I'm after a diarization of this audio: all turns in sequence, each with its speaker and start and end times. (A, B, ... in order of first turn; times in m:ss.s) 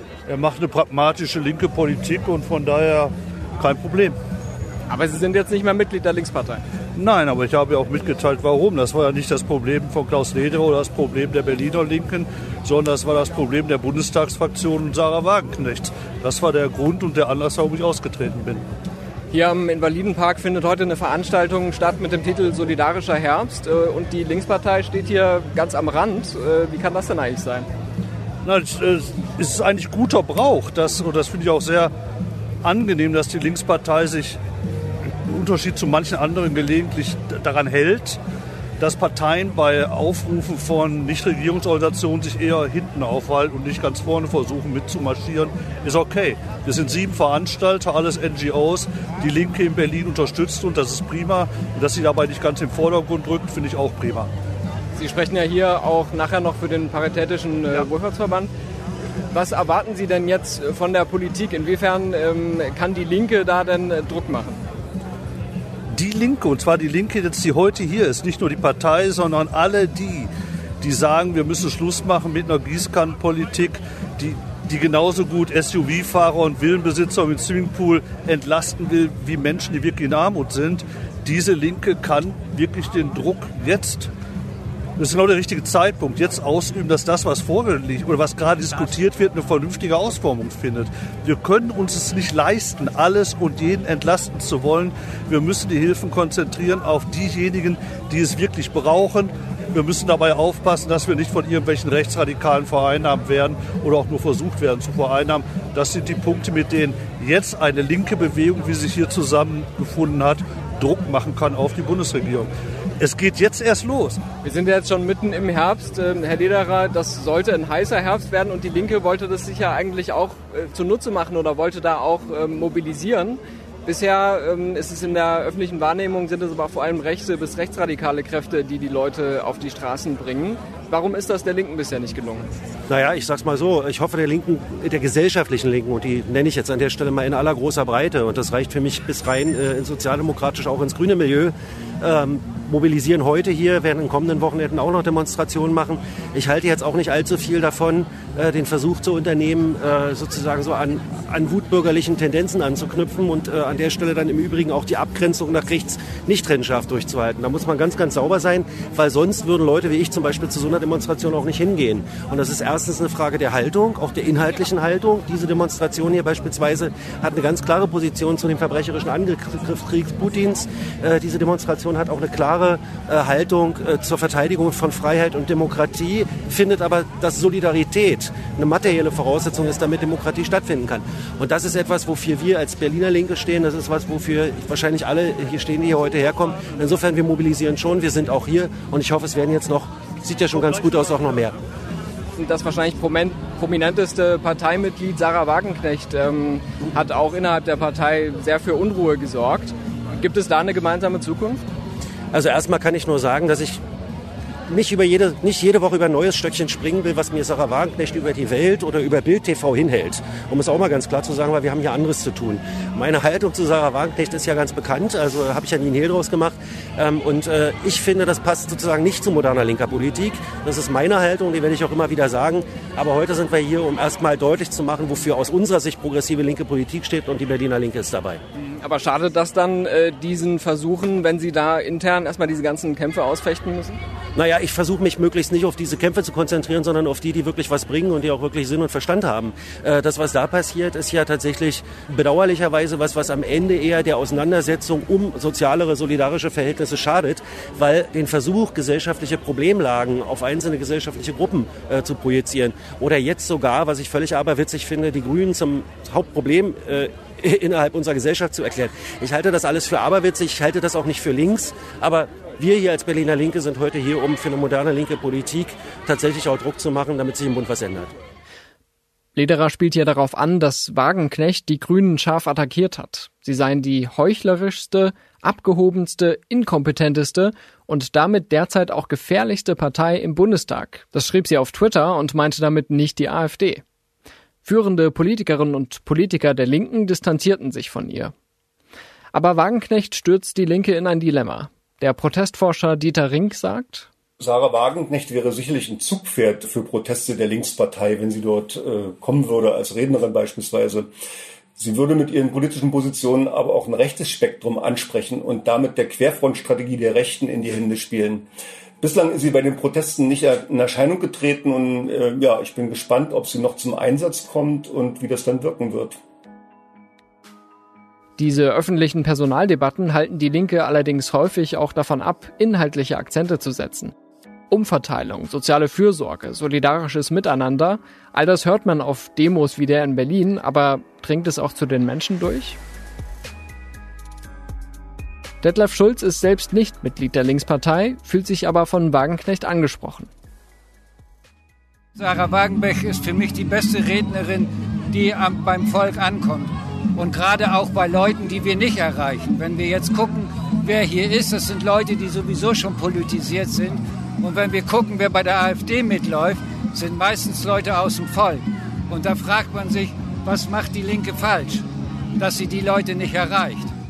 0:00.3-0:04.2 A
0:04.9-0:06.6 B
0:07.0-0:18.6 A
0:19.3-0:27.7 B
0:28.4-0:31.9 A
0:32.6-0:34.4 A
0:35.3-0:38.2 A
0:38.8-0:54.3 A
0:55.0-0:58.5 B
0:59.3-1:04.6 B
1:05.9-1:10.3 A
1:10.8-1:24.1 A
1:25.0-1:54.2 A
1:54.4-2:12.5 B
2:12.9-3:11.6 C
3:12.4-3:21.6 B
3:22.3-3:23.8 C
3:24.7-3:48.4 C
3:48.6-3:54.0 B
3:54.4-4:28.1 C
4:29.4-4:43.8 B
4:44.6-4:48.3 B
4:49.3-4:54.1 B
4:54.4-5:01.1 D
5:01.8-5:08.5 D
5:09.0-5:16.2 D
5:18.4-5:24.1 B
5:24.7-5:32.8 B
5:35.6-5:40.3 B
5:42.2-6:01.8 E
6:02.4-6:03.9 E